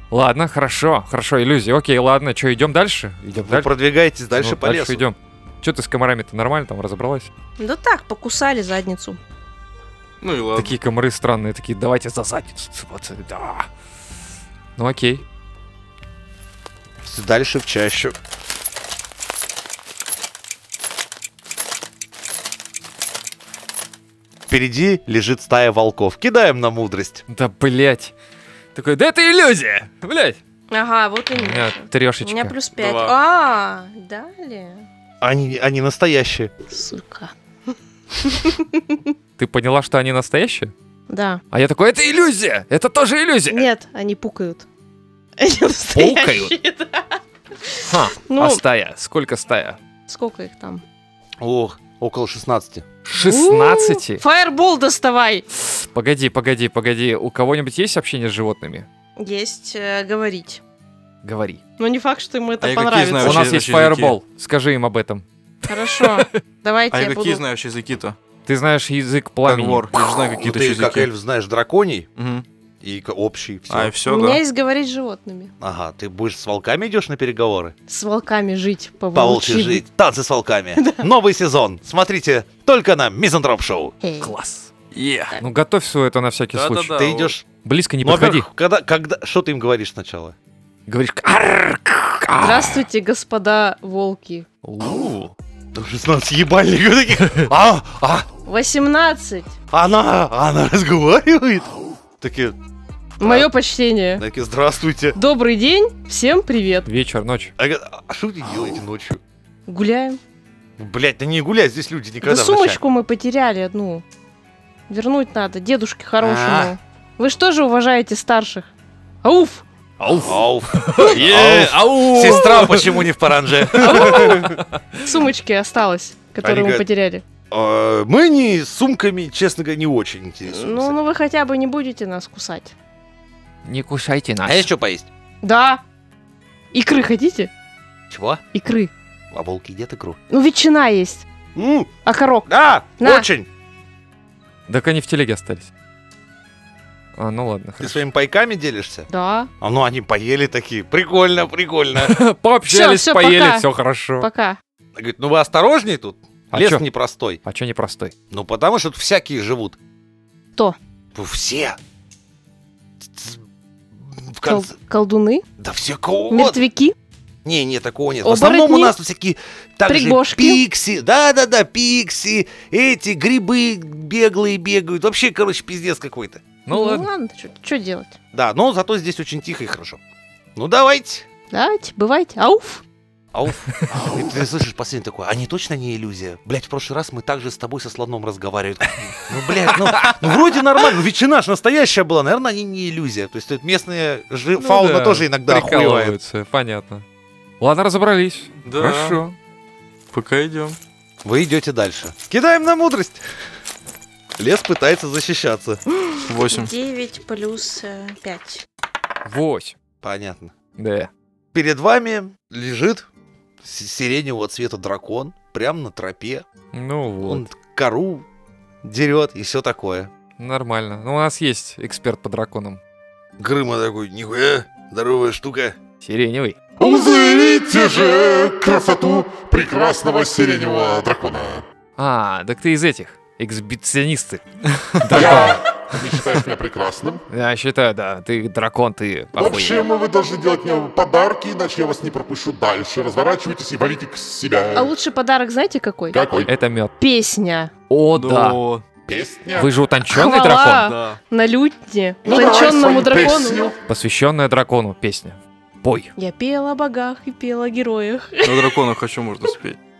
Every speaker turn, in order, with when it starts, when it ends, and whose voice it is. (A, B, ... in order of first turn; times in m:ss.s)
0:00.1-0:03.7 A
0:03.4-0:05.0 B
0:04.3-0:07.3 A
0:07.6-0:09.2 C
0:10.2-0:10.7 D
0:10.5-0:13.7 A
0:14.8-0:15.2 A
0:17.0-0:18.1 B
0:24.5-0:27.2 B
0:27.3-0:28.1 A
0:28.7-0:30.4 A
0:30.7-0:34.8 C
0:31.3-0:32.6 A
0:32.8-0:33.1 D
0:35.2-0:36.5 B
0:36.7-0:39.0 C
0:39.4-0:40.7 A
0:41.1-0:41.4 C
0:41.5-0:43.7 A
0:43.5-0:44.6 C
0:45.4-0:48.6 C
0:45.9-0:46.5 A
0:47.9-0:49.8 A
0:50.1-0:50.8 C
0:51.4-0:52.8 B
0:53.0-0:54.2 A
0:53.1-0:55.4 C
0:55.7-0:58.9 A
0:59.2-1:00.6 C
1:01.2-1:01.6 A
1:01.8-1:03.5 C
1:02.6-1:04.2 D
1:03.2-1:06.3 A
1:05.7-1:07.4 C
1:06.9-1:08.2 D
1:08.4-1:09.9 A
1:09.4-1:11.1 D
1:10.4-1:12.1 B
1:12.2-1:12.4 D
1:12.8-1:13.9 B
1:13.7-1:14.4 D
1:14.0-1:15.5 C
1:15.6-1:17.7 B
1:17.9-1:19.8 C
1:19.1-1:23.9 B
1:20.8-1:21.0 C
1:24.0-1:24.3 C
1:24.2-1:24.7 A
1:24.9-1:25.4 D
1:25.4-1:27.0 A
1:26.5-1:27.3 D
1:26.9-1:27.4 B
1:27.6-1:28.5 A
1:28.0-1:30.3 B
1:30.9-1:32.8 A
1:32.4-1:34.4 C
1:34.6-1:35.3 A
1:35.7-1:38.3 B
1:38.4-1:39.5 C
1:39.7-1:42.6 B
1:43.2-1:43.5 B
1:43.2-1:44.2 C
1:44.2-1:45.2 B
1:45.2-1:46.9 C
1:46.8-1:47.5 A
1:47.6-1:49.2 B
1:49.7-1:50.2 C
1:50.8-1:52.8 B
1:52.2-1:54.0 C
1:54.9-1:58.7 C
1:56.2-1:56.7 B
1:59.2-1:59.6 C
2:00.0-2:03.0 A
2:00.2-2:04.6 B
2:02.2-2:02.8 C
2:03.5-2:05.2 A
2:03.7-2:07.2 C
2:06.4-2:06.8 B
2:07.5-2:11.0 B
2:10.4-2:12.7 C
2:13.6-2:14.7 A
2:14.4-2:15.1 B
2:15.4-2:15.8 C
2:16.7-2:17.5 C
2:18.1-2:18.4 B
2:18.5-2:18.9 C
2:19.3-2:20.2 B
2:20.3-2:21.2 C
2:21.6-2:21.9 B
2:22.0-2:22.5 C
2:22.5-2:23.5 B
2:23.0-2:23.3 C
2:24.7-2:25.7 A
2:27.2-2:28.0 A
2:27.8-2:29.1 B
2:29.1-2:29.5 C
2:29.6-2:32.2 B
2:32.0-2:34.3 A
2:32.7-2:33.7 C
2:34.2-2:34.6 C
2:35.0-2:37.4 B
2:36.5-2:36.8 A
2:37.4-2:38.1 A
2:38.3-2:39.8 B
2:41.1-2:41.8 B
2:43.1-2:43.4 B
2:44.1-2:44.7 B
2:44.4-2:45.4 C
2:45.6-2:46.6 B
2:46.3-2:46.9 C
2:47.4-2:56.4 B
2:48.2-2:48.9 C
2:49.9-2:50.6 C
2:56.6-2:57.1 A
2:56.7-2:58.2 C
2:58.3-3:00.0 B
3:00.6-3:01.2 B
3:01.5-3:02.8 C
3:03.3-3:16.2 B
3:03.9-3:04.2 A
3:09.7-3:10.3 A
3:14.6-3:17.0 A
3:17.6-3:19.4 A
3:18.6-3:19.2 D
3:20.1-3:20.8 D
3:21.2-3:23.2 B
3:24.4-3:25.8 B
3:26.1-3:28.6 C
3:26.2-3:26.7 D
3:29.2-3:29.8 A
3:30.0-3:30.5 B
3:30.8-3:31.1 A
3:31.5-3:33.0 B
3:33.6-3:36.4 B
3:36.7-3:37.5 A
3:37.2-3:38.2 B
3:38.8-3:40.1 B
3:40.4-3:42.8 A
3:43.4-3:45.8 B
3:46.0-3:46.7 A
3:46.8-3:51.6 E
3:52.0-3:54.4 A
3:55.0-3:55.6 A
3:55.1-3:57.2 E
3:57.3-3:59.8 A
3:59.4-4:04.9 E
4:04.7-4:06.2 C
4:06.1-4:06.5 E
4:06.4-4:06.9 A
4:07.0-4:07.7 C
4:07.9-4:08.6 A
4:08.1-4:08.8 D
4:09.1-4:09.7 E
4:09.5-4:10.9 A
4:10.1-4:13.7 C
4:10.8-4:11.2 D
4:12.2-4:13.7 E
4:13.9-4:16.1 A
4:16.2-4:18.8 C
4:18.4-4:19.8 D